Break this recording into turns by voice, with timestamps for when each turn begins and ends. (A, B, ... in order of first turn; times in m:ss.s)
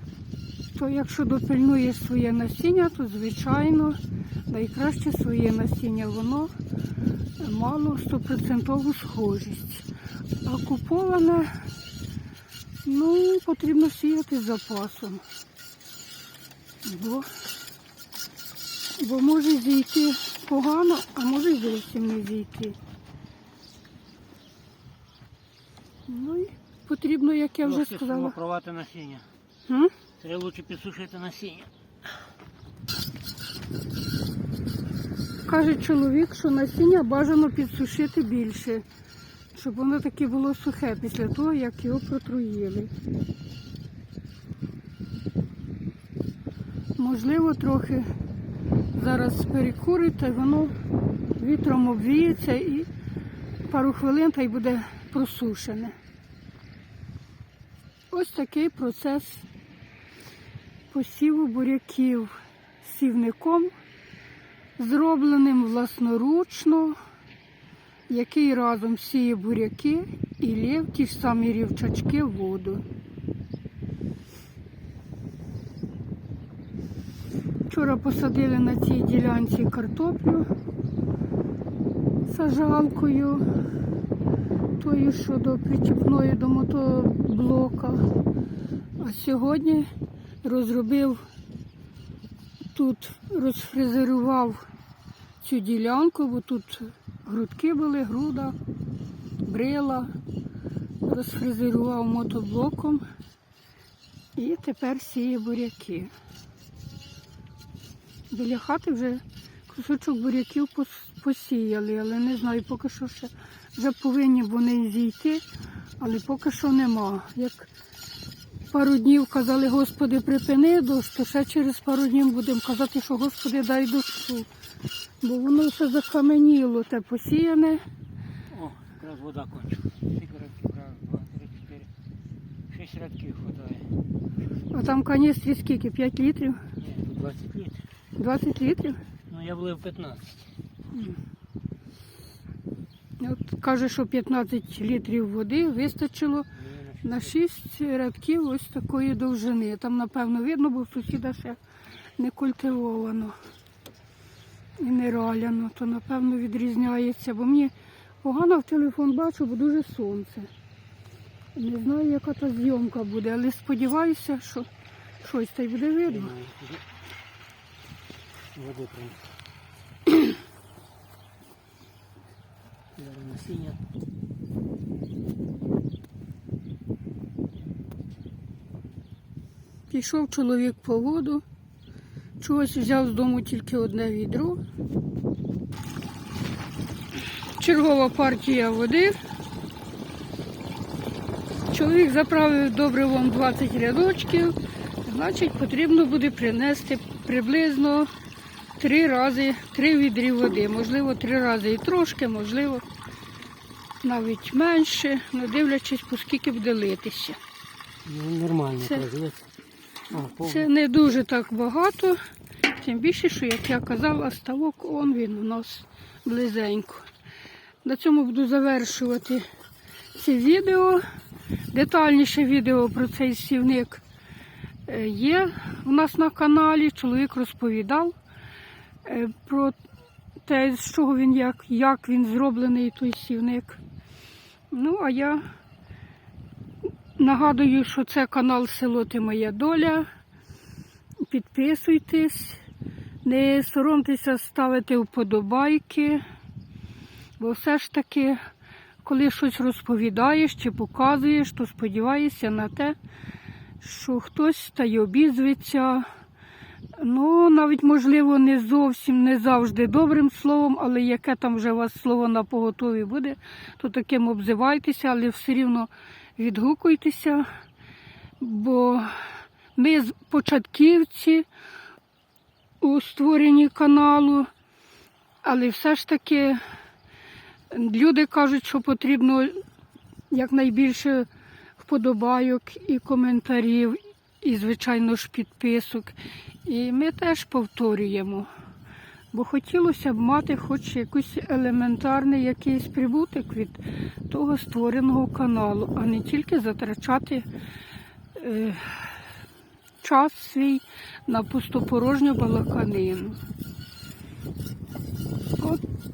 0:00.7-0:04.0 A
0:04.5-0:06.5 A
0:07.4-0:09.9 A
0:10.4-0:11.5 A
0:12.8-0:15.2 A
0:16.8-0:17.3 A
0:19.0-0:22.8 A
0:26.1-0:28.4 A
0:27.6-0:29.3 B
0:29.7-0:29.9 A
0:30.2-0:31.7 B
0:35.5-0:38.8 A
0:39.5-0:42.9 A
0:47.0-0:48.1 A
0:48.9-0:50.8 A
0:51.4-0:52.9 A
0:53.7-0:56.0 A
0:58.1-0:59.4 A
1:00.9-1:03.7 A
1:04.8-1:07.0 A
1:08.1-1:12.8 A
1:17.7-1:20.5 A
1:22.3-1:23.4 A
1:24.8-1:28.0 A
1:29.0-1:29.9 A
1:30.4-1:31.2 A
1:32.7-1:34.6 A
1:35.4-1:38.6 A
1:39.4-1:40.1 A
1:41.0-1:43.0 A
1:44.4-1:46.1 A
1:48.3-1:55.4 A
1:56.0-1:57.7 A
1:58.7-2:04.5 A
2:05.2-2:07.8 A
2:08.5-2:11.9 B
2:12.7-2:13.9 B
2:14.7-2:16.6 A
2:16.8-2:17.8 B
2:18.2-2:19.0 A
2:19.3-2:20.4 B
2:23.2-2:31.6 A
2:26.7-2:27.2 B
2:32.2-2:33.3 A
2:34.8-2:37.7 A
2:38.2-2:40.5 A
2:41.6-2:44.7 A
2:45.2-2:46.3 A
2:46.1-2:46.8 B
2:48.6-2:49.3 B
2:53.0-2:53.8 B
2:59.9-3:01.4 A
3:02.4-3:04.6 A
3:07.5-3:09.2 A
3:11.7-3:18.1 A
3:18.8-3:22.8 A
3:24.0-3:27.4 A
3:28.0-3:29.4 B
3:30.1-3:30.7 B
3:30.4-3:32.2 A
3:32.7-3:37.1 A
3:37.8-3:39.4 A
3:40.2-3:41.0 A
3:41.7-3:44.0 A
3:44.9-3:48.2 A
3:49.0-3:49.8 A
3:50.4-3:53.8 A
3:54.7-3:55.4 A
3:57.2-4:00.1 A
4:01.3-4:02.6 A
4:03.2-4:06.2 A
4:07.4-4:08.4 A
4:09.0-4:13.0 A
4:13.8-4:16.1 A
4:17.0-4:27.5 A
4:28.4-4:31.4 A
4:32.8-4:34.5 A
4:35.4-4:36.6 A
4:37.7-4:39.6 A
4:40.3-4:41.3 A
4:41.8-4:48.5 A
4:49.3-4:57.4 A
4:58.3-4:59.2 A
5:00.0-5:03.4 A